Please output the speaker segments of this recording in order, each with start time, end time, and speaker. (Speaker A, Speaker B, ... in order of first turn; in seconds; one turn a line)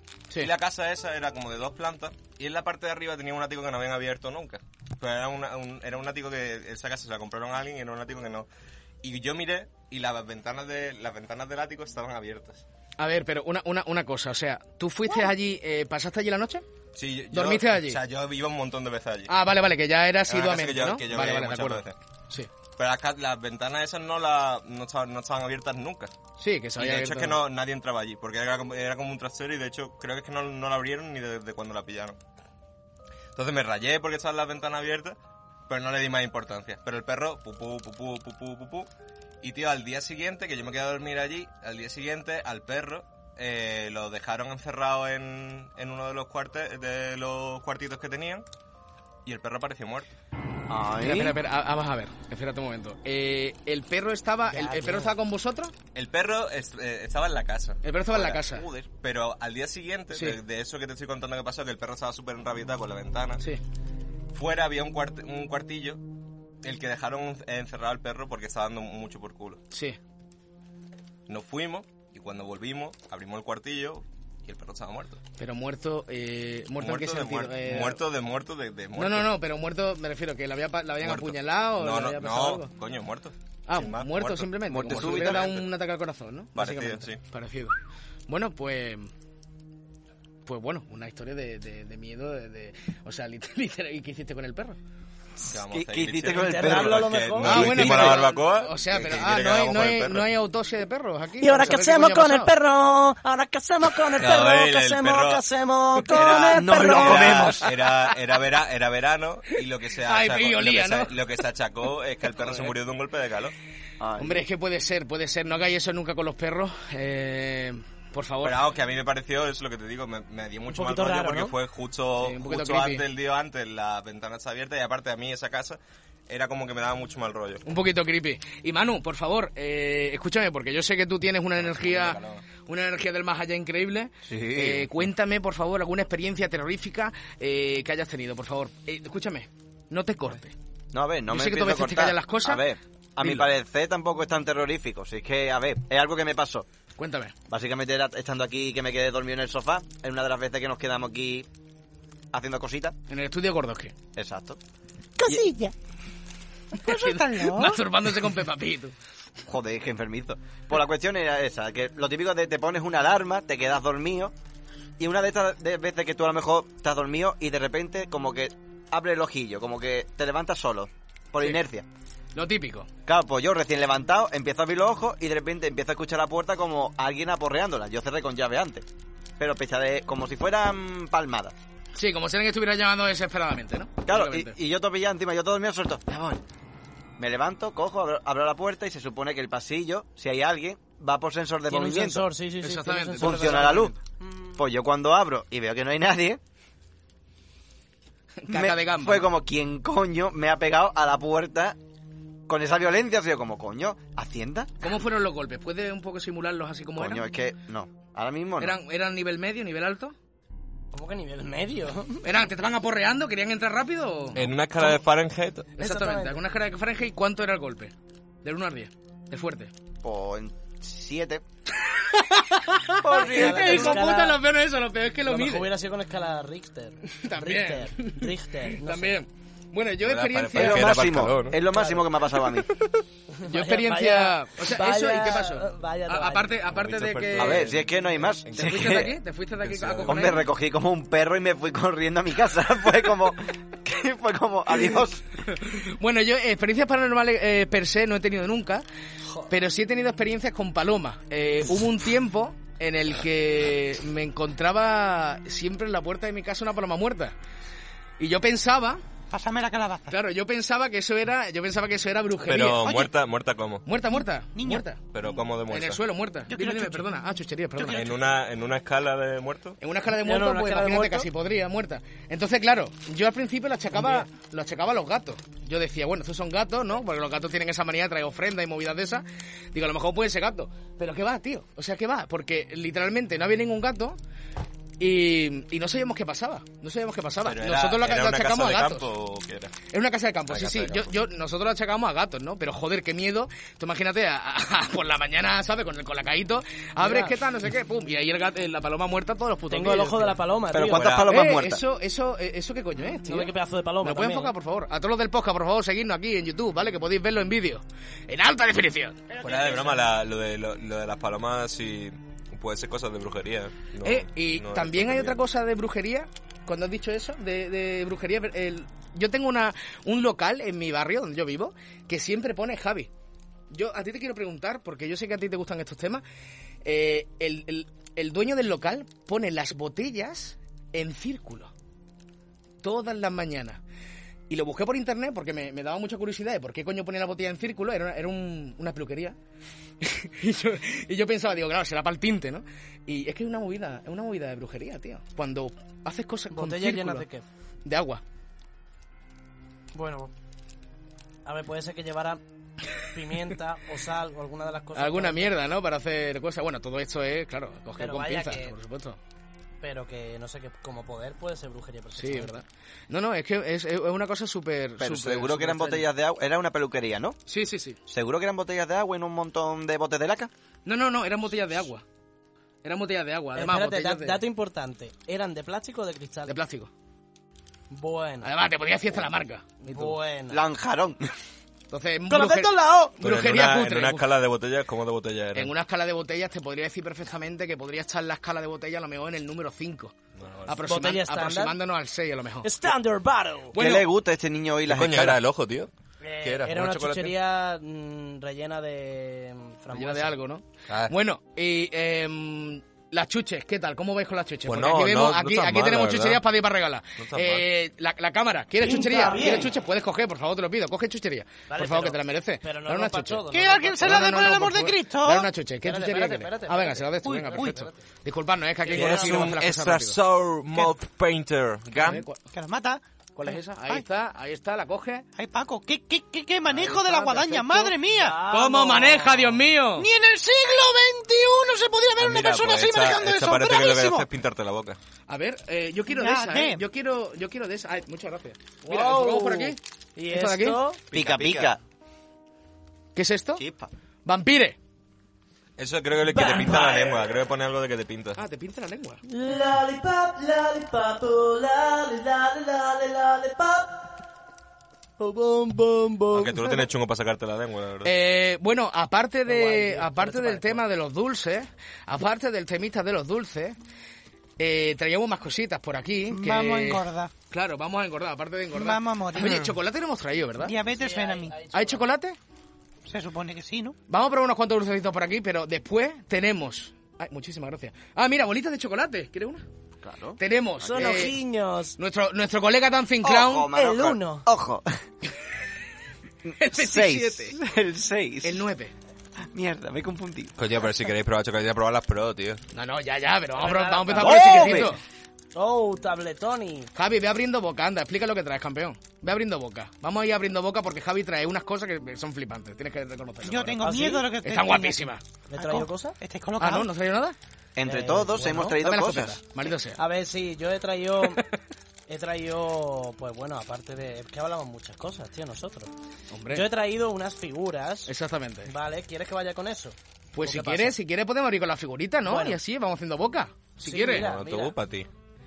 Speaker A: 0.4-8.5
Speaker A: 9.0-12.6
Speaker B: 13.0-16.6
Speaker A: 16.9-19.3
Speaker B: 17.3-18.0
Speaker B: 19.3-22.5
Speaker A: 20.3-21.9
Speaker A: 22.8-26.1
Speaker B: 26.4-27.4
Speaker A: 26.8-32.2
Speaker A: 33.4-35.1
Speaker A: 35.7-38.9
Speaker A: 39.4-48.4
Speaker A: 49.2-50.1
Speaker C: 50.7-51.4
Speaker B: 51.0-55.7
Speaker D: 54.5-55.1
Speaker A: 55.9-57.8
Speaker B: 57.8-58.6
Speaker C: 58.1-58.9
Speaker A: 59.0-63.4
Speaker B: 60.1-60.4
Speaker A: 64.3-66.0
Speaker A: 66.6-69.6
Speaker B: 69.7-70.0
Speaker A: 71.3-75.2
Speaker B: 75.4-78.0
Speaker A: 76.8-79.3
Speaker B: 79.0-82.7
Speaker A: 81.0-85.7
Speaker B: 83.7-87.7
Speaker C: 84.7-85.4
Speaker A: 86.5-87.2
Speaker B: 88.3-89.1
Speaker B: 90.4-94.8
Speaker A: 95.5-100.3
Speaker C: 95.7-97.2
Speaker D: 96.3-98.2
Speaker B: 97.4-102.5
Speaker D: 101.4-107.5
Speaker A: 104.2-105.4
Speaker A: 106.0-113.5
Speaker C: 106.3-107.7
Speaker B: 107.9-108.1
Speaker B: 110.0-111.2
Speaker B: 112.4-112.7
Speaker C: 114.0-114.4
Speaker B: 114.2-118.6
Speaker A: 118.4-127.6
Speaker D: 120.7-121.5
Speaker B: 122.2-123.0
Speaker B: 127.7-140.5
Speaker A: 131.6-132.4
Speaker C: 134.3-135.0
Speaker C: 140.9-146.7
Speaker B: 141.3-142.6
Speaker B: 143.2-143.5
Speaker B: 146.9-147.3
Speaker C: 147.5-151.5
Speaker C: 152.3-152.9
Speaker B: 153.1-153.9
Speaker C: 154.2-154.6
Speaker E: 155.2-155.7
Speaker E: 156.7-157.8
Speaker B: 156.8-158.9
Speaker C: 159.4-164.3
Speaker C: 165.0-171.8
Speaker B: 172.3-172.9
Speaker C: 173.1-178.8
Speaker C: 179.4-181.5
Speaker B: 181.9-184.6
Speaker C: 184.1-186.4
Speaker C: 187.2-192.3
Speaker D: 191.7-194.5
Speaker B: 192.6-193.9
Speaker C: 193.2-193.9
Speaker C: 194.6-196.4
Speaker B: 198.4-199.3
Speaker C: 198.5-201.8
Speaker C: 202.5-204.7
Speaker B: 204.8-207.2
Speaker C: 207.0-208.8
Speaker B: 208.6-210.1
Speaker D: 210.9-212.2
Speaker B: 212.2-215.0
Speaker A: 214.3-215.7
Speaker B: 215.8-217.9
Speaker D: 215.8-216.4
Speaker B: 218.4-219.7
Speaker C: 220.0-221.4
Speaker B: 221.7-225.7
Speaker C: 223.0-224.0
Speaker D: 223.1-224.4
Speaker D: 225.2-229.2
Speaker B: 227.1-231.2
Speaker A: 230.0-231.6
Speaker C: 230.5-232.7
Speaker D: 231.7-232.1
Speaker D: 233.3-236.5
Speaker B: 233.4-237.8
Speaker A: 236.7-239.0
Speaker C: 237.3-239.1
Speaker B: 238.5-240.5
Speaker A: 239.6-240.5
Speaker C: 240.1-245.4
Speaker B: 245.4-248.8
Speaker B: 249.5-257.3
Speaker B: 258.2-259.0
Speaker E: 259.3-260.1
Speaker B: 260.1-262.9
Speaker A: 262.4-263.9
Speaker E: 262.8-263.1
Speaker B: 263.9-265.0
Speaker E: 264.5-264.9
Speaker A: 265.1-266.0
Speaker B: 265.7-268.1
Speaker E: 266.5-267.1
Speaker A: 267.9-269.8
Speaker B: 269.8-284.2
Speaker D: 270.2-271.3
Speaker B: 285.0-289.1
Speaker A: 287.4-289.7
Speaker B: 289.9-300.4
Speaker A: 290.5-291.1
Speaker D: 297.0-297.3
Speaker D: 299.7-301.2
Speaker C: 300.7-301.8
Speaker A: 300.9-301.3
Speaker B: 301.2-309.2
Speaker D: 303.2-304.5
Speaker D: 309.3-310.0
Speaker A: 309.4-315.4
Speaker B: 314.0-323.1
Speaker B: 323.7-326.2
Speaker B: 326.8-331.7
Speaker B: 332.8-333.8
Speaker B: 334.5-339.4
Speaker B: 340.0-347.2
Speaker D: 346.5-347.4
Speaker B: 347.8-348.2
Speaker D: 349.9-350.3
Speaker D: 351.4-352.4
Speaker D: 353.0-355.6
Speaker B: 354.9-359.2
Speaker D: 358.0-358.7
Speaker D: 359.8-362.6
Speaker B: 362.1-366.1
Speaker C: 365.0-367.4
Speaker B: 367.5-368.0
Speaker C: 368.1-370.5
Speaker B: 370.8-372.0
Speaker B: 372.8-374.4
Speaker D: 373.5-376.6
Speaker B: 376.5-376.9
Speaker D: 377.9-378.5
Speaker B: 378.4-380.2
Speaker D: 379.8-380.6
Speaker C: 380.5-381.3
Speaker B: 381.9-384.3
Speaker D: 382.3-383.1
Speaker A: 383.2-385.7
Speaker B: 385.5-390.1
Speaker A: 390.4-390.8
Speaker B: 390.6-392.8
Speaker D: 390.9-391.8
Speaker D: 392.6-393.8
Speaker B: 393.7-394.1
Speaker C: 393.7-395.4
Speaker A: 394.9-395.9
Speaker D: 396.2-400.3
Speaker A: 396.4-397.3
Speaker B: 399.9-413.4
Speaker A: 400.9-401.1
Speaker A: 404.6-406.4
Speaker A: 407.2-407.6
Speaker D: 408.8-409.7
Speaker D: 411.7-414.4
Speaker E: 413.5-415.5
Speaker B: 414.0-420.2
Speaker D: 415.8-418.0
Speaker E: 417.2-417.9
Speaker D: 418.8-419.5
Speaker A: 418.9-422.2
Speaker B: 421.9-422.4
Speaker E: 422.5-424.0
Speaker B: 423.4-425.2
Speaker E: 425.4-428.4
Speaker B: 426.7-430.1
Speaker D: 428.1-429.6
Speaker E: 430.0-434.3
Speaker A: 432.2-435.0
Speaker B: 435.3-440.8
Speaker E: 436.1-436.8
Speaker D: 438.8-441.0
Speaker A: 441.1-441.7
Speaker C: 441.1-441.8
Speaker B: 443.1-443.6
Speaker C: 443.6-443.9
Speaker B: 444.2-444.8
Speaker A: 445.8-448.4
Speaker D: 446.3-447.4
Speaker B: 448.4-449.2
Speaker D: 449.2-454.1
Speaker D: 455.2-456.8
Speaker A: 456.3-458.1
Speaker B: 458.0-463.8
Speaker D: 459.5-460.8
Speaker B: 464.6-470.8
Speaker E: 466.3-467.3
Speaker E: 468.7-469.7
Speaker E: 470.6-471.6
Speaker D: 470.9-472.1
Speaker B: 471.7-472.4
Speaker E: 473.0-474.0
Speaker B: 474.1-479.6
Speaker C: 480.0-481.3
Speaker B: 480.4-481.4
Speaker D: 480.8-482.0
Speaker B: 482.0-483.7
Speaker C: 483.2-485.0
Speaker D: 483.7-484.5
Speaker C: 486.4-488.6
Speaker B: 486.6-487.6
Speaker B: 488.4-488.9
Speaker C: 489.5-490.6
Speaker A: 490.6-492.6
Speaker B: 492.7-495.0
Speaker D: 493.6-494.9
Speaker C: 494.2-494.9
Speaker D: 495.5-496.9
Speaker B: 496.9-503.9
Speaker E: 503.4-506.9
Speaker D: 503.8-504.3
Speaker B: 504.4-505.2
Speaker D: 505.5-506.2
Speaker B: 506.6-507.4
Speaker C: 507.8-509.4
Speaker D: 507.8-508.8
Speaker B: 508.7-510.0
Speaker D: 509.9-511.4
Speaker B: 511.2-511.5
Speaker D: 512.1-515.9
Speaker B: 516.3-516.7
Speaker D: 516.5-518.1
Speaker B: 518.0-518.7
Speaker D: 518.6-521.0
Speaker B: 520.3-524.3
Speaker D: 522.2-522.6
Speaker D: 523.8-524.7
Speaker A: 524.1-525.1